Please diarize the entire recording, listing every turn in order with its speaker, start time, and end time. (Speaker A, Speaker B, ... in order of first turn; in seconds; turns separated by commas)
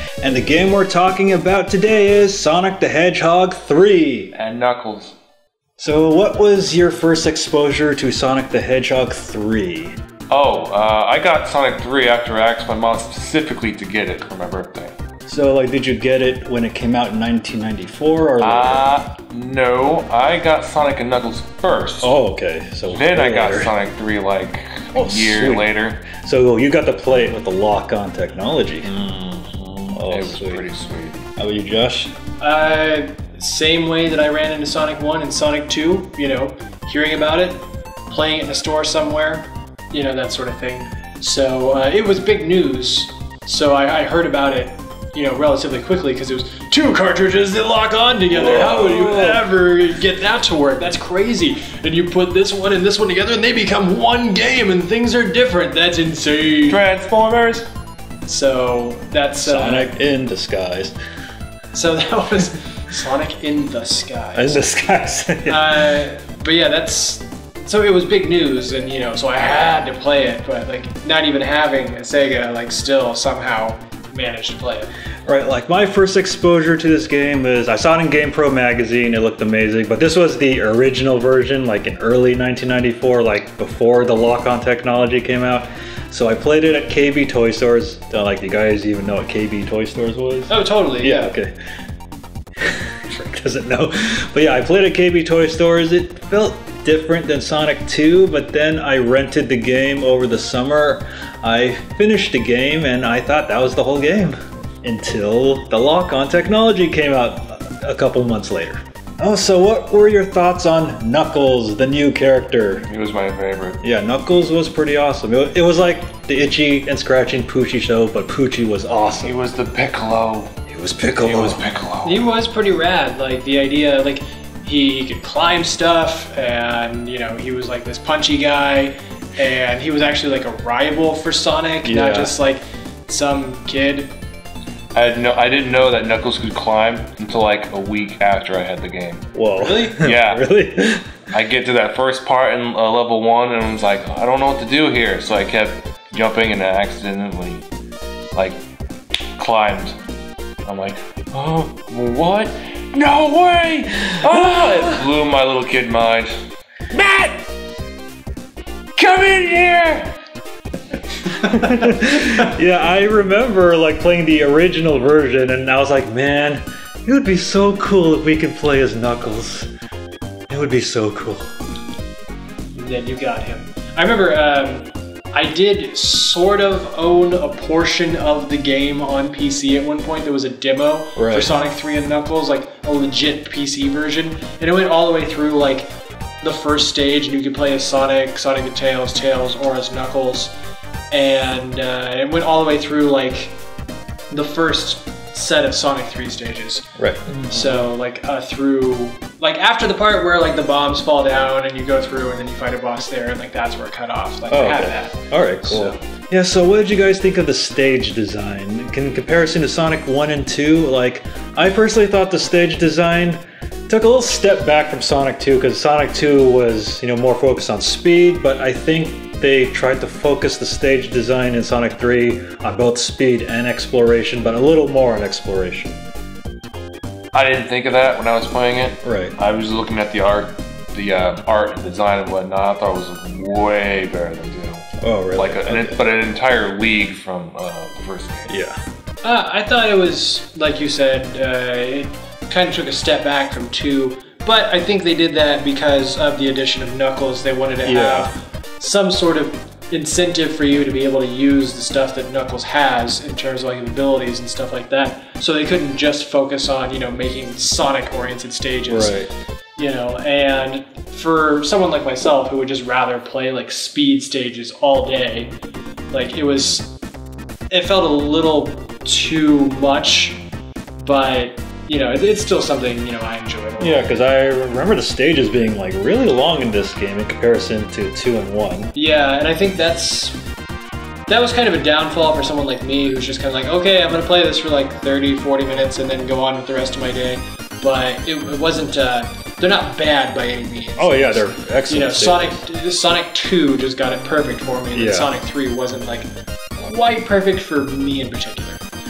Speaker A: 0.2-4.3, Speaker B: 4.3-5.2, Speaker A: 5.8-10.0, Speaker B: 10.3-14.9, Speaker A: 15.3-18.9, Speaker B: 18.4-22.2, Speaker A: 22.0-23.7, Speaker B: 22.9-26.0, Speaker A: 24.9-28.9, Speaker B: 28.8-31.2, Speaker A: 29.9-30.7, Speaker A: 31.4-32.1, Speaker C: 32.4-56.8, Speaker B: 48.4-49.4, Speaker A: 48.4-49.5, Speaker B: 56.7-57.7, Speaker C: 58.3-59.9, Speaker A: 59.4-61.0, Speaker C: 61.7-64.7, Speaker A: 64.3-66.0, Speaker C: 65.5-74.9, Speaker A: 75.3-91.5, Speaker C: 90.5-91.3, Speaker A: 92.6-112.9, Speaker B: 112.9-113.8, Speaker A: 113.8-119.4, Speaker B: 119.2-120.5, Speaker A: 120.7-121.6, Speaker B: 121.2-122.2, Speaker C: 122.0-134.1, Speaker A: 131.8-132.3, Speaker B: 134.9-139.3, Speaker A: 139.3-141.1, Speaker C: 139.6-140.0, Speaker B: 140.0-140.4, Speaker B: 141.3-147.7, Speaker B: 148.3-148.6, Speaker B: 149.4-149.9, Speaker B: 150.7-156.3, Speaker B: 156.9-157.4, Speaker B: 159.0-160.1, Speaker A: 161.4-169.7, Speaker A: 170.5-171.5, Speaker C: 172.8-185.9, Speaker A: 181.2-181.5, Speaker C: 186.4-190.5, Speaker C: 191.1-193.6, Speaker C: 194.3-196.9, Speaker A: 197.0-197.6, Speaker C: 197.5-206.0, Speaker A: 204.5-226.0, Speaker B: 227.3-238.5, Speaker A: 229.0-229.3, Speaker A: 235.0-236.0, Speaker A: 238.5-238.8, Speaker C: 239.2-259.2, Speaker A: 247.8-248.3, Speaker A: 258.9-259.3, Speaker C: 259.8-265.5, Speaker C: 266.1-266.9, Speaker C: 267.7-270.4, Speaker C: 271.0-274.1, Speaker A: 273.8-278.9, Speaker C: 278.9-280.4, Speaker C: 281.3-298.8, Speaker A: 291.0-292.6, Speaker A: 294.9-295.3